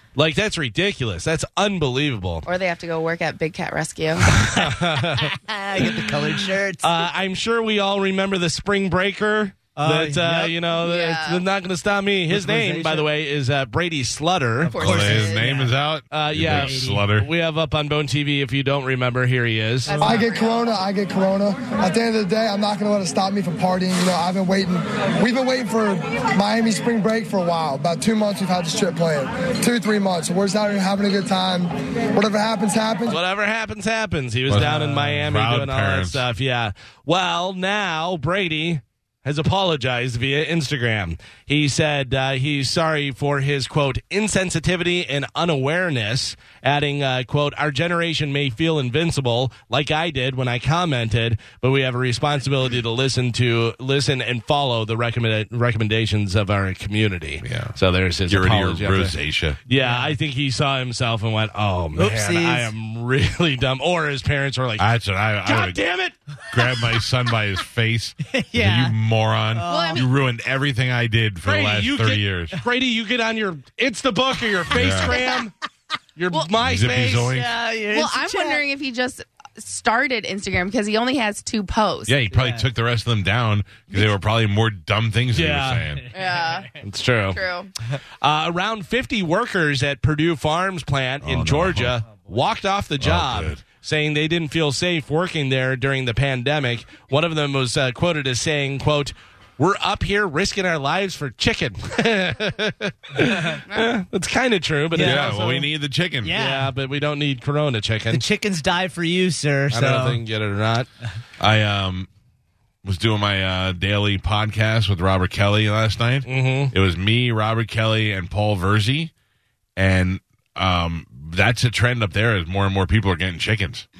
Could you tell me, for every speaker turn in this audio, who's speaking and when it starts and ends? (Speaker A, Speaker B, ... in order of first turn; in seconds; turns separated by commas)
Speaker A: 0.1-2.5, Speaker B: 2.5-4.3, Speaker A: 4.3-5.3, Speaker C: 4.3-7.0, Speaker A: 6.8-14.8, Speaker C: 9.8-10.5, Speaker B: 10.7-11.4, Speaker C: 12.3-13.1, Speaker B: 14.7-15.6, Speaker C: 14.7-15.7, Speaker D: 14.8-17.3, Speaker A: 16.1-20.0, Speaker C: 16.4-17.1, Speaker B: 19.9-20.6, Speaker E: 20.0-33.2, Speaker A: 33.1-59.1, Speaker D: 34.5-36.2, Speaker D: 57.4-57.8, Speaker D: 58.3-59.6, Speaker A: 59.7-64.8, Speaker C: 59.7-60.1, Speaker C: 62.0-62.7, Speaker D: 64.8-65.8, Speaker A: 65.4-66.1, Speaker D: 66.5-72.6, Speaker C: 68.3-69.0, Speaker C: 69.5-70.1, Speaker B: 69.7-70.1, Speaker A: 71.4-75.5, Speaker D: 74.7-75.1, Speaker B: 75.0-75.4, Speaker A: 76.2-77.3, Speaker D: 76.6-77.5, Speaker C: 77.3-78.6, Speaker B: 77.9-82.2, Speaker D: 82.0-86.0, Speaker C: 82.3-82.7, Speaker A: 85.3-85.8, Speaker B: 86.1-86.7, Speaker C: 86.2-86.6, Speaker A: 86.8-87.4, Speaker B: 87.3-87.7, Speaker A: 88.2-105.6, Speaker D: 91.2-91.9, Speaker D: 93.0-93.6, Speaker C: 103.2-103.6, Speaker C: 104.9-105.7, Speaker D: 105.0-106.4, Speaker C: 106.2-106.7, Speaker A: 106.4-108.2, Speaker C: 108.1-110.2, Speaker A: 109.7-110.9, Speaker D: 111.4-112.1, Speaker D: 112.8-119.1, Speaker A: 116.2-116.7, Speaker D: 119.8-123.8